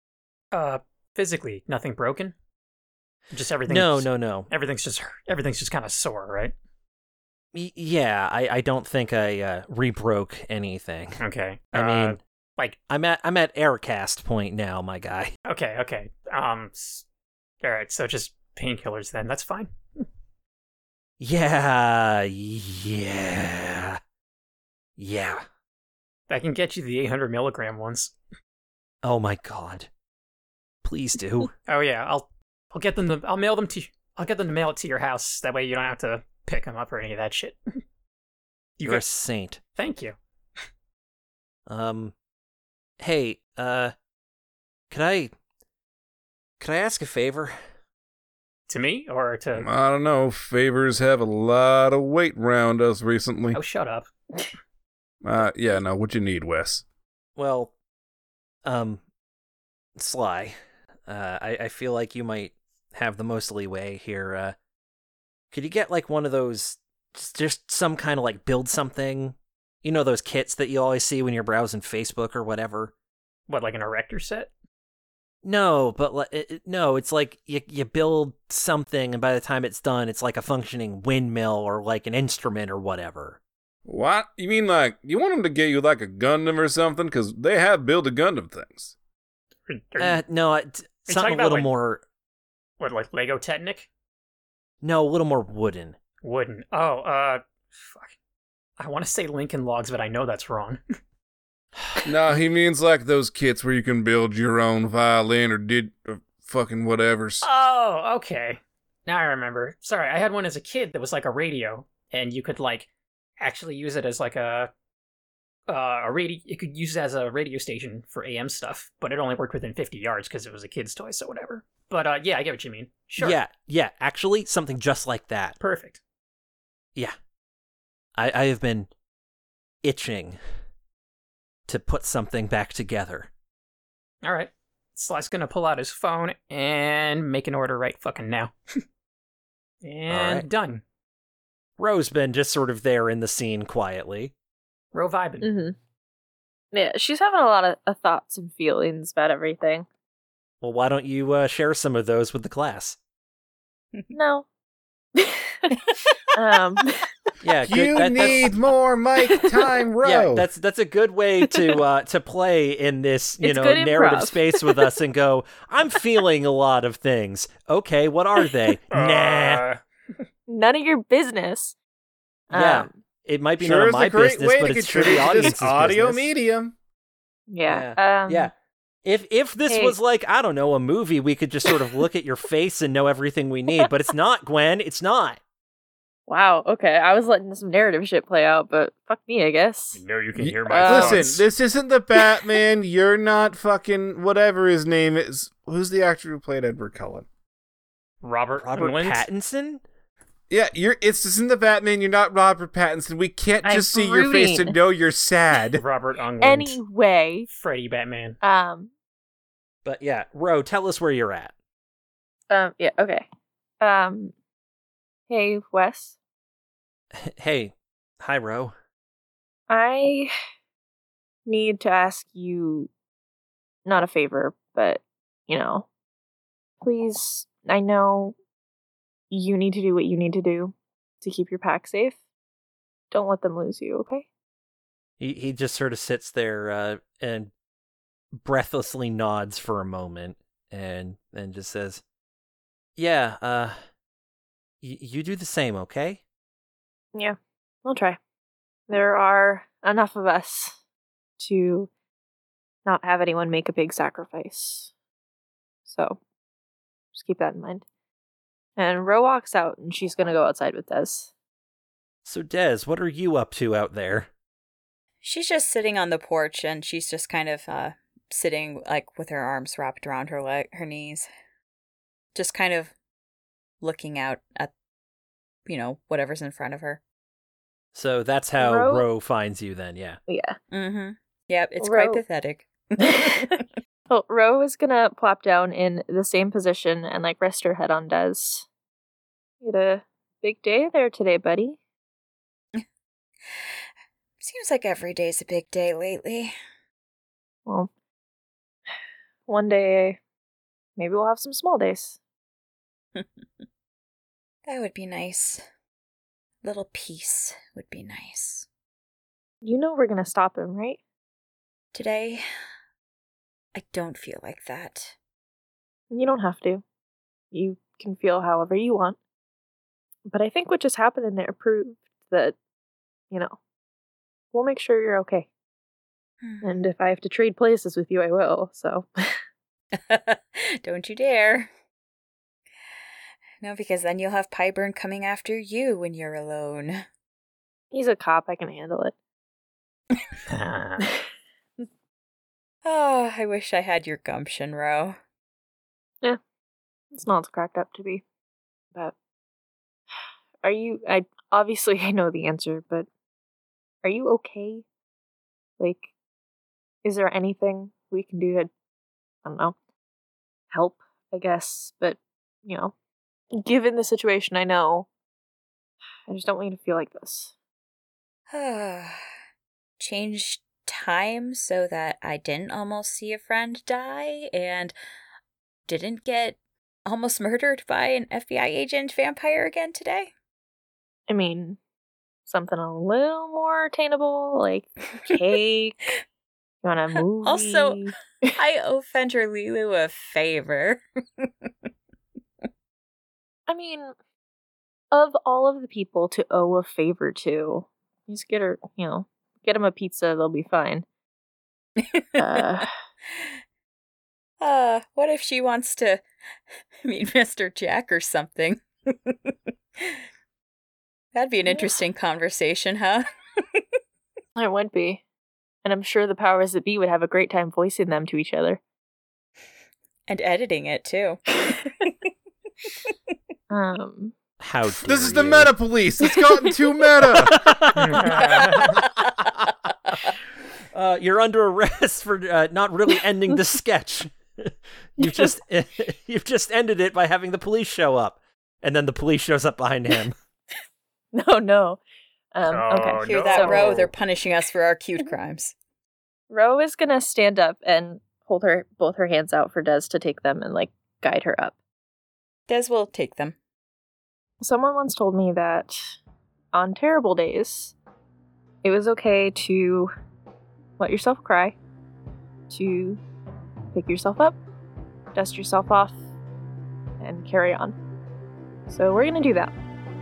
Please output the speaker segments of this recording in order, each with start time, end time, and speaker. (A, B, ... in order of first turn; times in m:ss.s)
0:00.5-0:02.3 A
0:03.3-0:06.5 A
0:03.7-0:04.5 B
0:07.5-0:11.2 B
0:11.2-0:12.8 A
0:11.7-0:12.2 B
0:12.9-0:15.3 B
0:15.4-0:17.0 A
0:17.6-0:19.7 A
0:21.2-0:24.0 B
0:25.0-0:25.4 B
0:26.3-0:28.1 A
0:29.0-0:29.9 B
0:30.8-0:31.5 B
0:31.7-0:37.6 A
0:38.8-0:39.6 B
0:39.8-0:40.2 A
0:41.7-0:42.1 B
0:43.0-0:43.9 B
0:44.9-0:45.3 B
0:46.6-0:47.6 B
0:48.7-0:49.6 A
0:49.5-0:53.6 C
0:53.5-0:54.1 A
0:55.2-0:56.8 C
0:57.4-0:57.7 B
0:58.6-0:59.0 B
1:00.0-1:04.5 B
1:05.5-1:12.9 B
1:13.5-1:14.5 A
1:15.4-1:23.4 B
1:23.8-1:28.9 C
1:29.7-1:30.2 A
1:30.0-1:32.0 B
1:31.1-1:31.7 A
1:32.8-1:33.9 A
1:34.8-1:36.0 B
1:36.2-1:38.1 A
1:38.8-1:40.8 A
1:42.0-1:47.4 C
1:47.4-1:52.9 A
1:53.4-1:54.7 A
1:55.7-2:03.4 A
2:03.2-2:05.6 B
2:05.6-2:06.0 A
2:08.2-2:08.9 B
2:09.8-2:10.4 B
2:11.7-2:13.3 B
2:14.2-2:18.5 A
2:19.8-2:20.8 A
2:20.1-2:20.4 B
2:21.8-2:24.3 B
2:24.9-2:25.5 A
2:25.4-2:25.7 D
2:26.7-2:29.8 D
2:30.6-2:33.0 B
2:34.1-2:34.4 D
2:35.2-2:37.1 D
2:37.4-2:38.5 B
2:37.6-2:40.5 C
2:39.2-2:39.8 D
2:40.0-2:49.6 B
2:43.4-2:44.9 D
2:48.9-2:49.8 A
2:50.5-2:51.7 D
2:52.5-2:53.0 D
2:52.5-2:56.3 B
2:53.6-2:56.8 C
2:57.5-2:58.5 D
2:57.7-2:58.5 B
2:59.0-3:05.4 B
2:59.7-3:00.0 D
3:06.3-3:10.0 D
3:10.0-3:11.4 A
3:10.4-3:17.2 C
3:10.7-3:11.3 D
3:18.2-3:19.3 A
3:18.6-3:19.8 B
3:20.5-3:25.8 C
3:23.6-3:24.8 D
3:25.7-3:26.8 A
3:26.4-3:27.5 D
3:27.5-3:28.4 A
3:28.4-3:28.9 D
3:29.8-3:31.5 B
3:32.5-3:33.2 D
3:33.8-3:34.3 D
3:35.3-3:36.1 D
3:37.2-3:38.7 B
3:39.7-3:40.3 D
3:41.4-3:42.9 D
3:43.8-3:45.9 D
3:46.8-3:48.3 D
3:49.3-3:52.2 D
3:53.1-3:54.3 D
3:55.2-3:57.5 B
3:58.4-4:02.0 B
4:03.0-4:03.8 B
4:04.8-4:06.2 B
4:07.1-4:08.2 D
4:08.9-4:10.8 D
4:11.4-4:11.9 D
4:12.8-4:14.9 D
4:15.9-4:16.2 D
4:17.1-4:17.8 D
4:18.8-4:21.3 D
4:22.2-4:24.3 B
4:25.2-4:31.3 E
4:32.3-4:32.9 E
4:33.8-4:34.7 E
4:35.6-4:37.0 E
4:37.9-4:40.2 B
4:38.6-4:39.1 D
4:40.3-4:40.6 D
4:40.7-4:43.6 E
4:41.8-4:42.2 D
4:43.0-4:43.5 D
4:44.1-4:48.7 D
4:49.6-4:51.8 D
4:53.5-4:53.8 E
4:54.4-4:56.5 E
4:59.5-5:00.2 D
5:01.0-5:02.2 D
5:04.7-5:05.6 E
5:06.6-5:08.6 E
5:09.6-5:11.0 D
5:11.9-5:12.4 E
5:13.7-5:15.2 E
5:16.1-5:16.8 D
5:17.5-5:19.2 D
5:20.3-5:22.6 D
5:23.3-5:23.6 D
5:24.5-5:25.5 D
5:26.4-5:26.9 E
5:26.6-5:29.4 D
5:29.9-5:31.7 E
5:33.6-5:37.0 E
5:37.9-5:39.1 D
5:40.5-5:41.0 A
5:42.8-5:45.2 E
5:47.1-5:48.2 D
5:50.6-5:53.1 D
5:54.0-5:54.8 D
5:55.8-5:56.1 D
5:57.0-5:58.7 D
5:59.4-5:59.7 D
6:00.7-6:02.9 D
6:03.6-6:05.1 D
6:06.3-6:07.5 D
6:08.5-6:09.2 E
6:10.0-6:14.9 E
6:15.9-6:20.3 E
6:21.3-6:21.8 D
6:22.4-6:26.1 D
6:26.8-6:28.6 D
6:27.4-6:28.0 E
6:28.6-6:31.7 E
6:33.7-6:34.1 D
6:35.1-6:41.0 D
6:42.0-6:42.7 E
6:42.4-6:43.0 D
6:44.6-6:46.2 E
6:47.0-6:50.2 E
6:51.3-6:53.8 E
6:54.6-6:55.2 D
6:55.8-6:58.8 D
7:00.3-7:02.1 E
7:03.7-7:04.3 D
7:04.6-7:05.7 B
7:04.8-7:08.7 C
7:07.4-7:08.4 B
7:08.0-7:09.0 A
7:10.9-7:20.3 B
7:15.2-7:15.5 D
7:21.3-7:22.0 D
7:22.5-7:24.1 D
7:22.7-7:24.1 A
7:23.2-7:25.7 E
7:26.5-7:31.7 D
7:32.7-7:33.6 E
7:34.6-7:36.1 D
7:36.7-7:37.9 D
7:38.8-7:40.1 D
7:41.0-7:41.8 D
7:42.7-7:43.2 D
7:43.9-7:44.6 D
7:45.3-7:46.2 D
7:47.2-7:48.0 D
7:48.9-7:49.7 D